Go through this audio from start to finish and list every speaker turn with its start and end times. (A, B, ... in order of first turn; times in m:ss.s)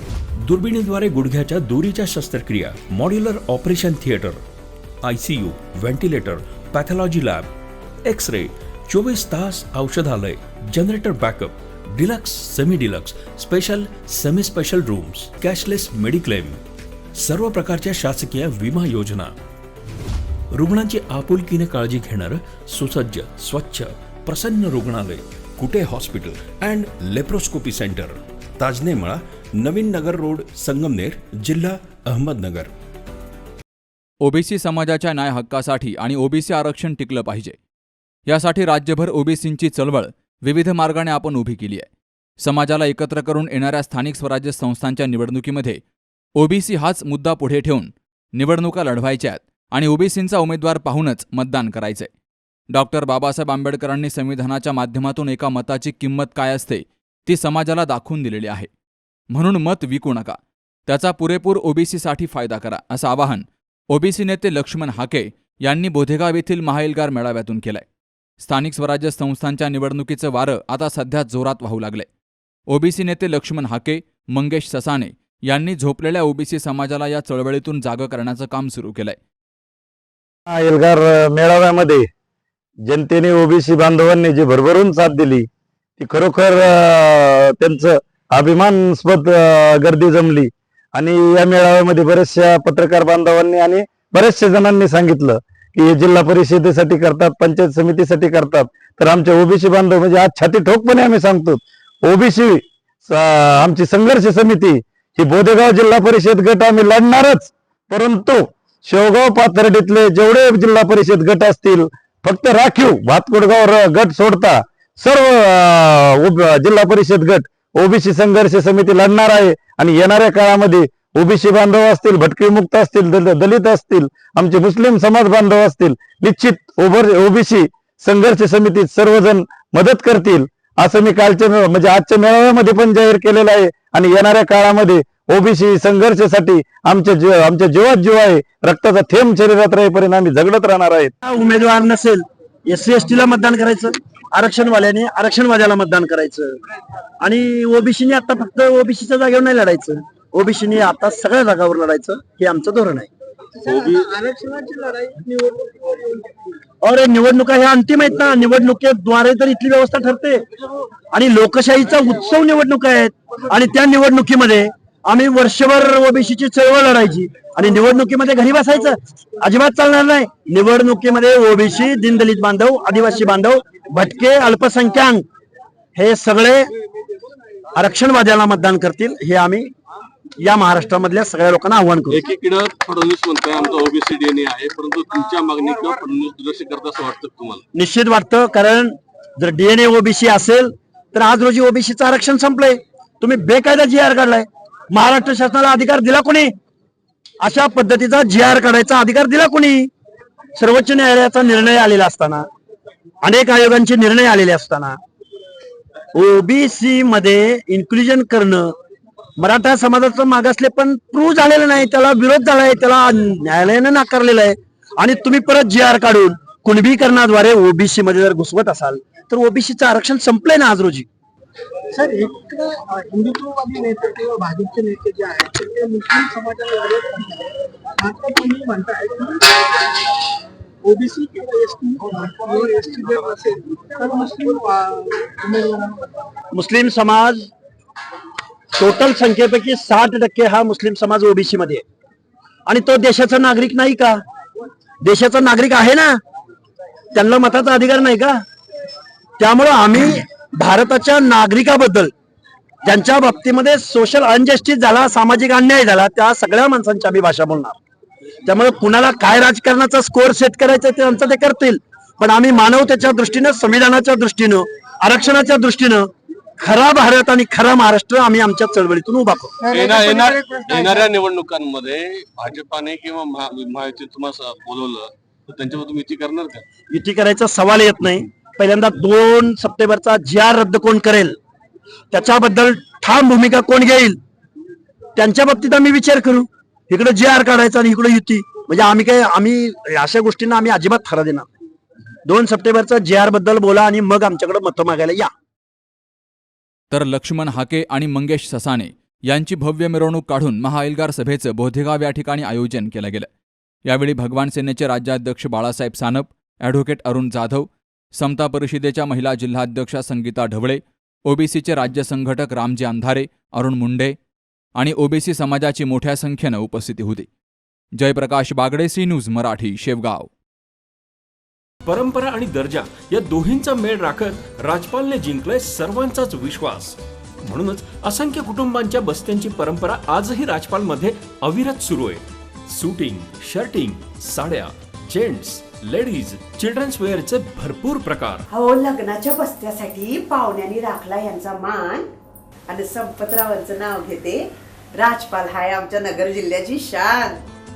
0:00.4-0:04.4 A
0:05.0-0:07.5 A
0:08.1-0:16.6 A
0:17.2-0:19.3 A
0:20.5-0:32.7 A
0:34.2-0:37.6 B
0:38.3-0:41.9 B
0:42.4-0:45.8 B
0:46.4-0:52.1 B
0:52.7-0:58.7 B
0:59.3-1:07.8 B
1:08.4-1:12.1 B
1:12.7-1:19.2 B
1:20.5-1:22.0 C
1:22.9-1:25.5 C
1:26.0-2:21.1 C
2:21.2-2:26.5 D
2:27.2-2:33.1 D
2:33.6-2:36.3 E
2:36.8-2:40.4 D
2:41.1-2:55.2 D
2:56.0-2:56.7 D
2:57.8-2:59.7 D
3:00.4-3:02.2 D
3:02.1-3:07.6 F
3:07.7-3:16.5 D
3:17.4-3:19.9 D
3:20.6-3:22.4 D
3:23.2-3:25.0 D
3:26.1-3:28.7 D
3:29.4-3:41.1 D
3:41.9-3:49.9 E
3:50.8-3:56.2 E
3:56.5-3:57.5 D
3:58.8-4:01.8 D
4:02.7-4:04.2 D
4:05.0-4:06.2 D
4:07.1-4:08.4 D
4:09.4-4:12.1 D
4:12.8-4:17.8 D
4:18.4-4:26.1 D
4:26.6-4:29.5 D
4:29.7-4:31.1 E
4:29.7-4:36.6 F
4:36.9-4:41.4 D
4:42.1-4:44.2 D
4:45.2-4:51.5 D
4:52.2-4:55.3 D
4:56.9-5:03.3 B
5:03.9-5:14.2 B
5:14.8-5:17.3 B
5:18.0-5:20.3 B
5:21.8-5:38.4 A
5:38.5-5:42.1 G
5:42.7-5:44.4 G
5:45.0-5:47.4 G